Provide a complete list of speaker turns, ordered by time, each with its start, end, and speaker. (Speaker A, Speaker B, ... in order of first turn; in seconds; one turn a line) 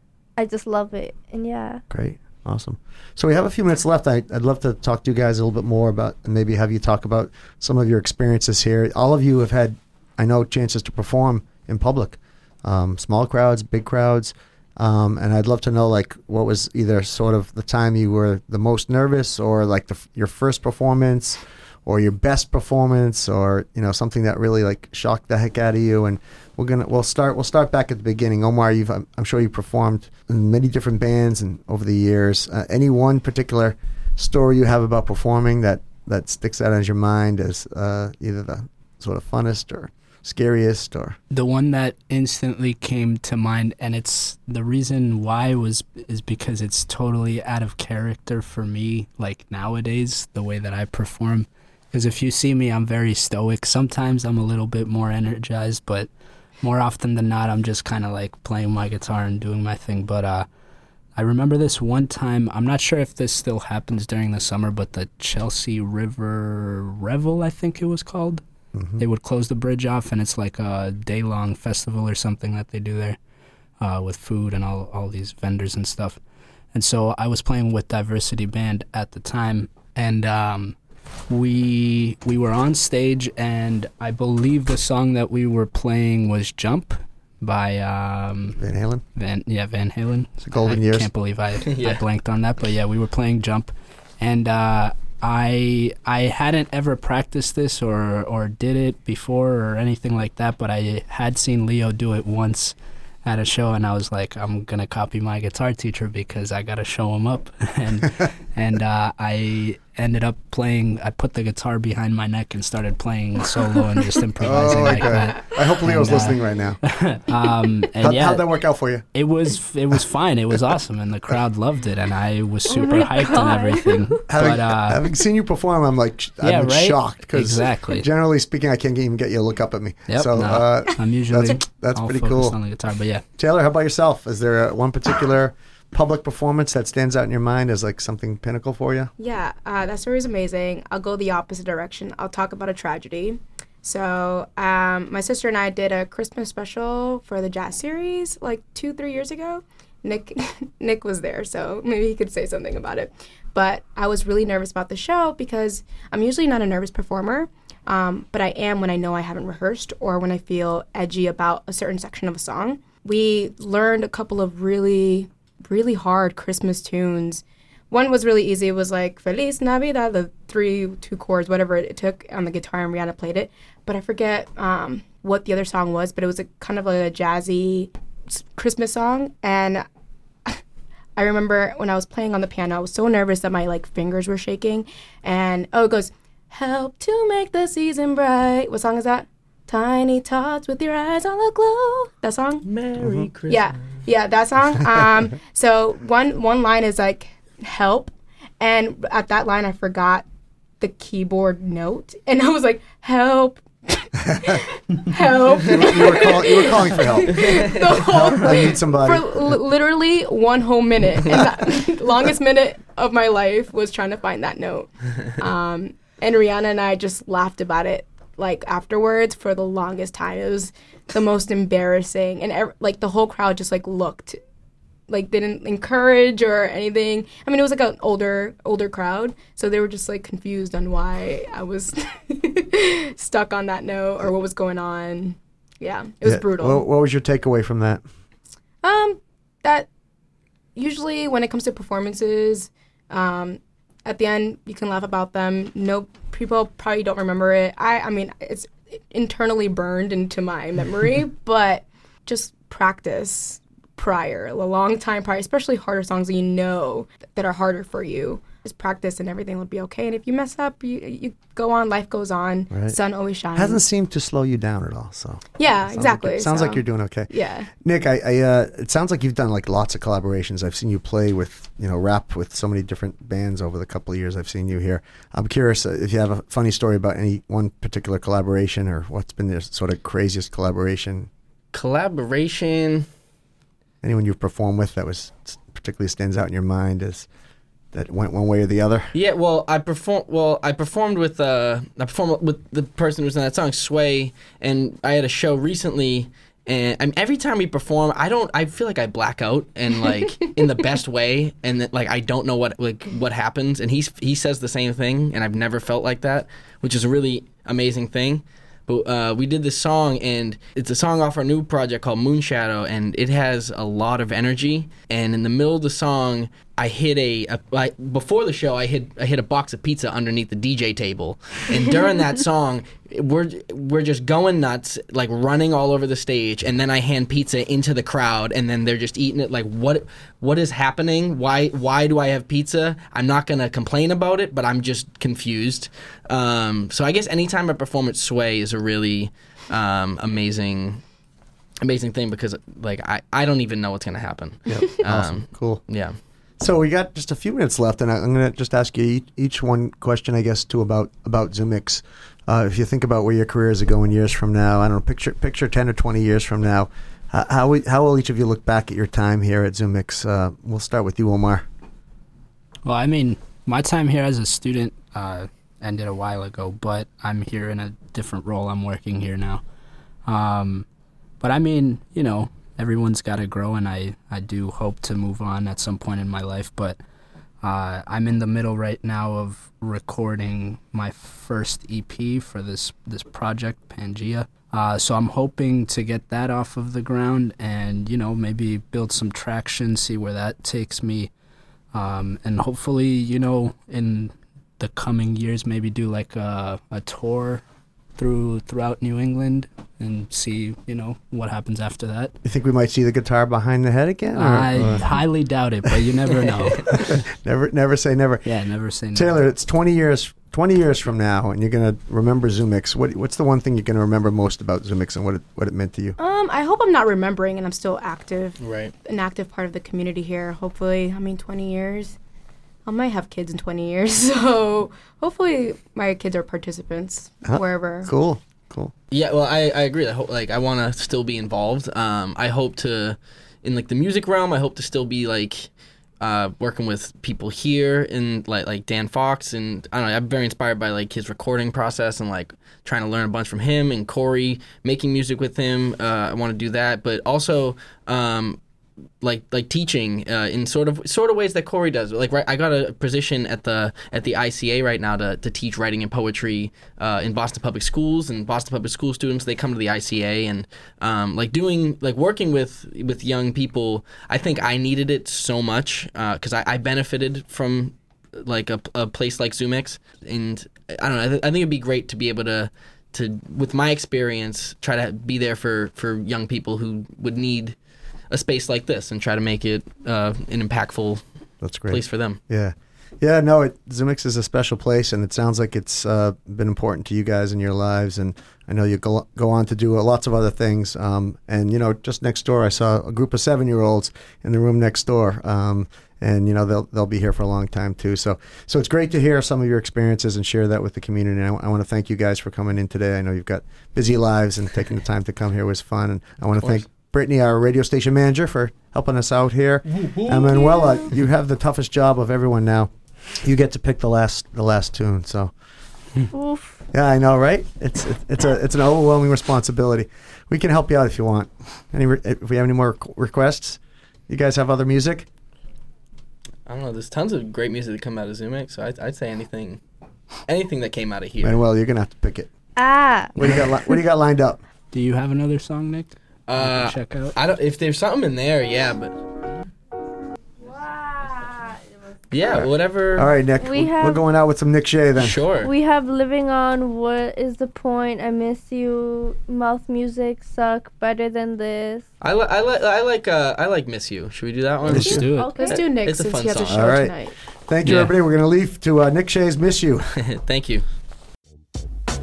Speaker A: 0.4-1.8
Speaker B: 1.9-41.2
Speaker C: 41.3-56.1
Speaker C: 56.6-60.5
Speaker C: 61.1-68.4
Speaker B: 68.7-69.0
Speaker C: 69.0-73.2
Speaker C: 73.8-76.2
Speaker C: 76.7-80.8
Speaker C: 81.3-88.6
Speaker B: 88.6-89.0
Speaker C: 89.2-118.5
Speaker B: 90.5-91.1
Speaker D: 91.6-92.0
Speaker B: 114.4-116.8
Speaker B: 118.0-119.0
Speaker C: 119.1-125.1
Speaker A: 122.8-123.9
Speaker B: 124.3-132.6
Speaker C: 126.4-128.0
Speaker C: 130.1-133.2
Speaker B: 133.4-139.1
Speaker E: 139.2-179.8
Speaker E: 181.2-192.7
Speaker D: 192.7-193.8
Speaker E: 193.5-200.3
Speaker E: 200.8-224.4
Speaker B: 205.6-209.6
Speaker E: 225.1-236.8
Speaker B: 236.2-238.0
Speaker E: 238.8-239.9
Speaker E: 240.8-263.8
Speaker B: 262.7-262.9
Speaker B: 263.5-281.3
Speaker E: 265.6-267.7
Speaker D: 281.7-283.1
Speaker B: 284.0-287.3
Speaker B: 287.9-289.1
Speaker D: 289.1-341.0
Speaker D: 341.8-346.1
Speaker B: 344.7-345.8
Speaker B: 346.6-361.6
Speaker C: 362.8-369.6
Speaker C: 370.2-370.9
Speaker C: 371.4-377.0
Speaker C: 377.6-391.3
Speaker C: 391.9-397.6
Speaker C: 398.1-402.3
Speaker B: 402.4-405.2
Speaker C: 404.4-407.2
Speaker B: 406.7-408.4
Speaker C: 408.4-409.3
Speaker B: 409.1-416.2
Speaker E: 416.2-422.2
Speaker D: 418.6-418.9
Speaker E: 422.9-428.1
Speaker B: 427.4-428.9
Speaker D: 429.1-448.6
Speaker D: 449.2-477.8
Speaker D: 478.3-481.2
Speaker B: 481.6-515.5
Speaker D: 481.9-482.4
Speaker D: 506.6-506.8
Speaker A: 516.3-516.8
Speaker B: 516.9-525.3
Speaker D: 526.6-529.8
Speaker D: 530.5-531.6
Speaker B: 531.4-532.5
Speaker A: 532.8-533.3
Speaker B: 533.4-534.6
Speaker C: 534.9-537.3
Speaker D: 536.5-539.2
Speaker A: 540.6-542.0
Speaker D: 542.3-543.3
Speaker B: 542.5-545.4
Speaker A: 543.6-544.2
Speaker D: 545.1-545.7
Speaker A: 545.6-552.0
Speaker D: 552.2-556.9
Speaker B: 554.9-555.3
Speaker C: 554.9-555.6
Speaker A: 555.0-555.8
Speaker E: 555.5-557.3
Speaker B: 556.7-557.1
Speaker B: 557.7-560.0
Speaker C: 557.8-558.1
Speaker D: 560.1-560.9